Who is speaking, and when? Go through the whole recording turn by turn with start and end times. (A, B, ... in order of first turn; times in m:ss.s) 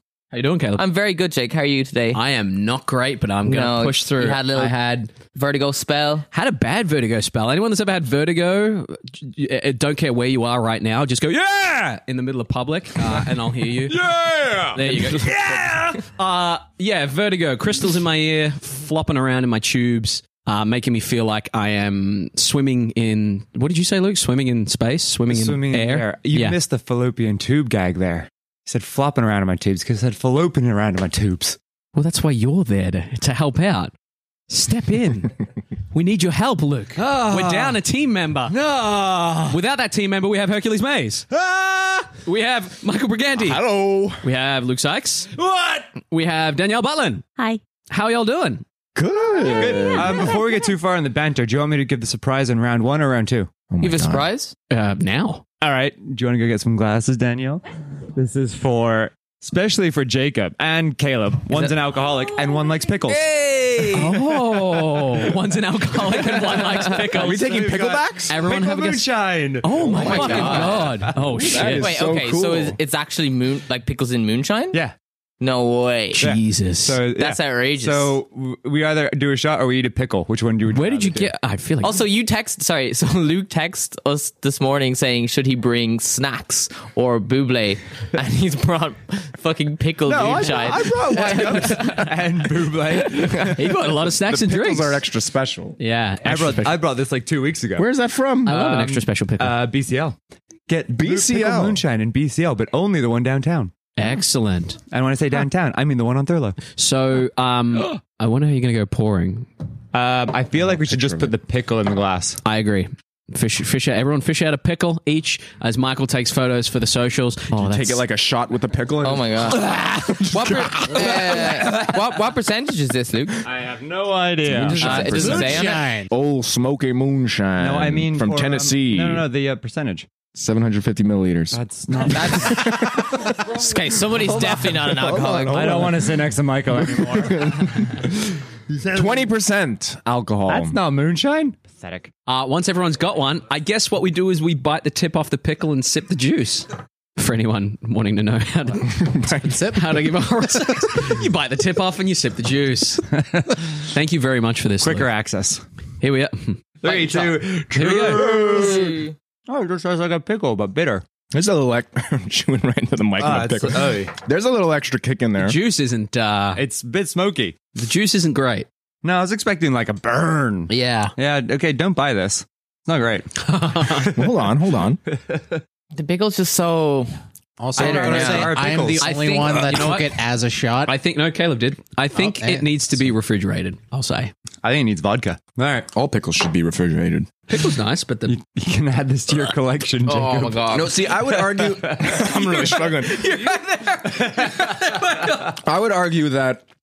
0:00.3-0:00.8 A
0:00.8-0:02.2 B
0:02.1-0:05.1 A
0:03.4-0:06.3 B
0:06.3-0:14.0 A
0:13.9-0:14.8 C
0:14.7-0:26.6 A
0:15.0-0:15.8 B
0:25.3-0:31.6 D
0:31.9-0:33.9 A
0:34.5-0:35.4 A
0:35.9-0:38.6 A
0:37.0-0:37.8 D
0:38.5-0:39.6 D
0:39.5-0:43.6 A
0:41.7-0:42.1 C
0:43.4-0:44.2 C
0:44.2-0:47.2 A
0:47.9-0:48.6 A
0:48.9-0:50.3 C
0:49.5-0:53.5 D
0:53.7-0:54.3 C
0:53.8-0:54.5 B
0:54.7-0:55.4 A
0:55.6-1:04.2 D
1:01.5-1:01.8 A
1:03.9-1:07.7 A
1:07.0-1:11.6 D
1:07.1-1:08.4 C
1:08.3-1:11.9 A
1:09.9-1:10.9 B
1:10.1-1:10.4 C
1:11.2-1:12.8 C
1:11.5-1:14.8 B
1:15.4-1:16.3 B
1:16.2-1:17.0 A
1:16.2-1:21.3 D
1:17.2-1:18.2 B
1:20.7-1:22.0 A
1:21.8-1:32.0 B
1:30.1-1:32.0 C
1:31.1-1:33.7 D
1:32.9-1:35.0 A
1:33.7-1:35.8 C
1:35.8-1:36.8 A
1:36.2-1:37.9 D
1:37.8-1:38.5 C
1:38.4-1:39.6 A
1:38.4-1:40.2 D
1:40.7-1:43.7 D
1:40.9-1:41.8 C
1:44.0-1:44.8 A
1:44.9-1:46.6 D
1:46.8-1:49.5 A
1:49.9-1:52.4 D
1:50.6-1:51.3 C
1:52.4-1:58.0 A
1:57.5-2:01.7 C
1:59.0-1:59.7 B
2:00.3-2:03.4 B
2:03.4-2:05.6 D
2:04.6-2:06.1 E
2:04.7-2:05.7 A
2:04.7-2:06.0 B
2:04.8-2:09.2 C
2:07.6-2:10.1 D
2:10.4-2:16.1 C
2:11.5-2:13.4 D
2:12.1-2:15.9 B
2:15.5-2:17.8 D
2:16.8-2:18.3 C
2:18.7-2:19.3 D
2:18.9-2:20.8 C
2:20.5-2:22.1 D
2:22.3-2:29.1 A
2:28.8-2:29.8 C
2:29.4-2:29.8 E
2:29.7-2:33.0 A
2:33.1-2:33.8 D
2:33.9-2:35.1 A
2:34.8-2:35.6 D
2:36.0-2:38.4 A
2:36.8-2:41.0 D
2:38.3-2:39.1 B
2:41.3-2:45.6 C
2:43.2-2:44.1 D
2:45.4-2:46.6 A
2:46.6-2:47.6 D
2:47.8-2:48.7 A
2:49.0-2:54.1 D
2:50.7-2:51.1 A
2:53.4-2:54.1 A
2:54.0-2:55.0 C
2:55.1-2:55.6 D
2:55.9-2:57.1 B
2:57.6-3:01.0 E
2:57.8-2:58.7 B
2:57.8-2:59.1 D
2:59.0-3:00.2 A
3:00.8-3:04.3 A
3:02.1-3:03.0 E
3:04.6-3:05.9 D
3:05.9-3:07.3 C
3:07.5-3:08.4 A
3:08.2-3:12.5 D
3:10.0-3:11.1 B
3:10.7-3:13.2 C
3:12.3-3:15.4 A
3:15.2-3:16.6 C